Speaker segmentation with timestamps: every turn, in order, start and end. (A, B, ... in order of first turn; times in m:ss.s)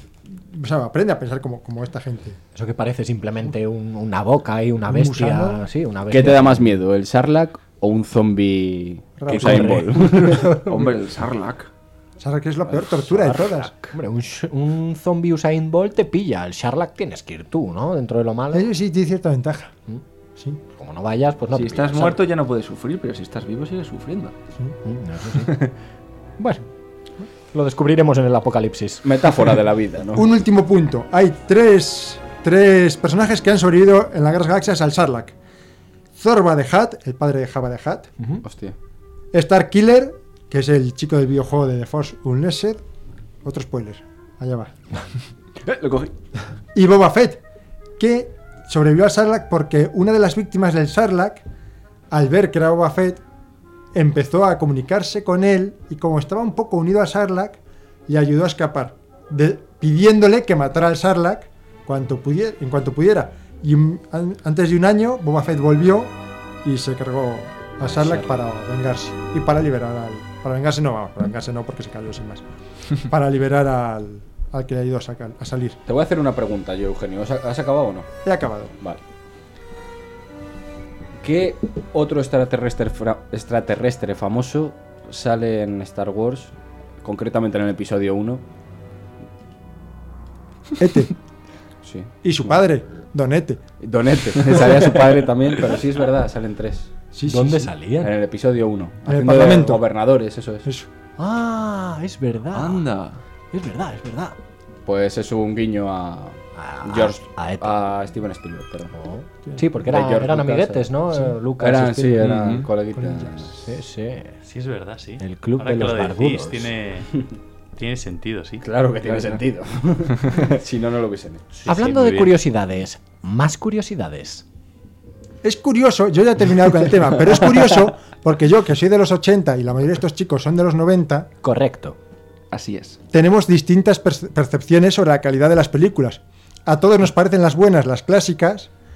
0:00.3-0:02.4 A
0:02.6-0:06.7 B
0:04.9-0:05.6 A
0:06.1-0:10.6 C
0:09.2-0:09.9 A
0:09.3-0:10.6 B
0:10.6-0:11.7 D
0:12.2-0:13.9 A
0:13.1-0:18.7 B
0:18.5-0:19.7 A
0:20.4-0:20.6 A
0:20.8-0:22.2 B
0:21.5-0:24.3 D
0:24.8-0:25.5 B
0:26.4-0:26.7 B
0:27.5-0:29.3 B
0:29.0-0:30.3 C
0:30.1-0:35.4 A
0:36.1-0:38.1 A
0:38.4-0:38.8 C
0:39.3-0:42.8 A
0:43.4-0:44.7 A
0:45.7-0:46.1 D
0:46.7-0:47.4 A
0:48.0-0:51.4 A
0:52.1-0:53.2 A
0:53.9-1:12.4 A
1:13.1-1:15.8 A
1:15.9-1:18.1 C
1:18.2-1:18.7 A
1:21.2-1:28.4 C
1:30.8-1:31.1 A
1:31.8-1:32.5 C
1:32.2-1:33.6 A
1:33.8-1:36.9 C
1:37.1-1:37.7 A
1:37.3-1:38.1 B
1:38.0-1:40.7 C
1:39.0-1:39.8 A
1:41.2-1:42.8 B
1:42.5-1:43.2 D
1:43.5-1:44.4 B
1:44.9-1:48.9 C
1:46.6-1:47.7 B
1:48.9-1:52.3 B
1:49.8-1:50.9 C
1:51.6-1:53.5 C
1:52.2-1:52.7 D
1:53.0-1:53.5 A
1:53.6-1:54.3 B
1:54.4-1:57.1 E
1:55.2-1:56.7 B
1:57.8-1:58.6 E
1:58.6-2:01.4 C
1:59.1-1:59.4 D
2:01.5-2:02.4 E
2:01.7-2:04.4 B
2:05.4-2:11.3 A
2:11.4-2:12.0 B
2:12.5-2:13.0 D
2:13.1-2:18.7 A